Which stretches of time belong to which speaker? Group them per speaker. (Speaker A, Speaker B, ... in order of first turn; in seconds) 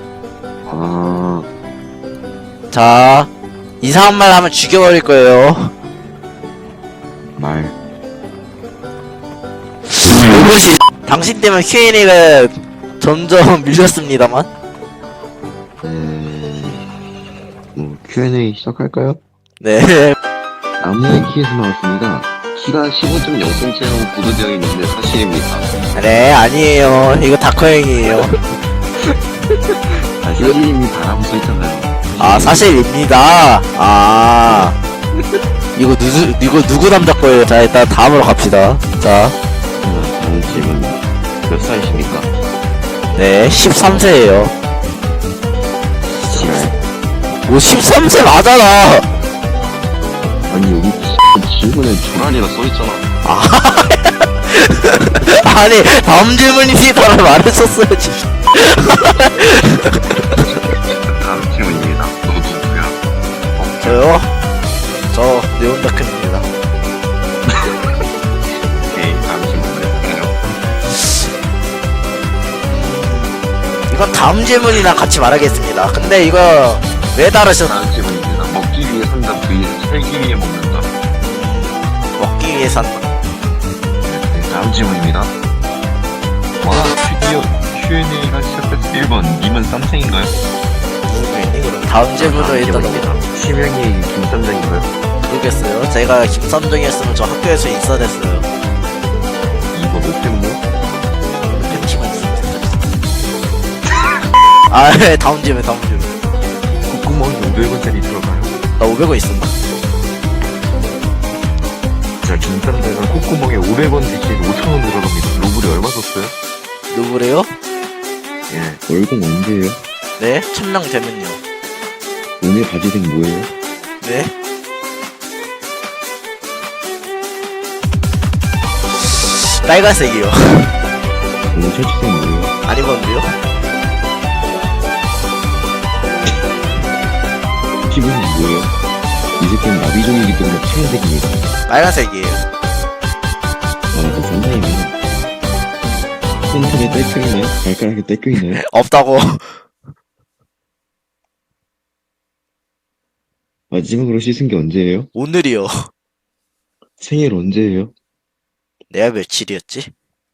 Speaker A: 0.7-1.5, 7.4-7.8, 15.8-16.9, 17.7-19.2, 20.8-25.9, 29.9-32.7, 34.5-34.7, 39.8-42.3, 46.3-46.8, 50.5-53.1, 60.4-63.0, 63.5-64.1, 67.5-68.0, 68.8-71.0, 77.6-80.9, 84.0-85.3, 86.6-90.4, 92.2-94.9, 99.7-100.6, 106.8-108.6, 112.2-116.3, 118.5-119.8, 122.4-123.5, 131.5-132.5, 137.9-138.8, 139.4-141.4, 143.9-145.0, 146.5-148.6, 153.7-155.1, 157.0-157.9
Speaker B: 2.7-3.3, 3.8-5.7, 9.9-14.5, 19.6-20.2, 25.9-28.3, 32.2-34.8, 35.8-39.4, 43.1-44.5, 46.3-46.6, 47.4-49.1, 53.2-60.4, 63.8-64.3, 65.1-66.5, 72.7-73.4, 73.9-77.8, 81.2-83.0, 91.0-93.1, 95.3-98.5, 101.5-103.0, 104.7-106.2, 108.8-109.5, 116.9-117.5, 120.2-121.4, 124.0-124.3, 129.0-130.7, 132.6-133.3, 141.7-142.4, 148.6-149.6, 155.2-155.9, 158.9-159.9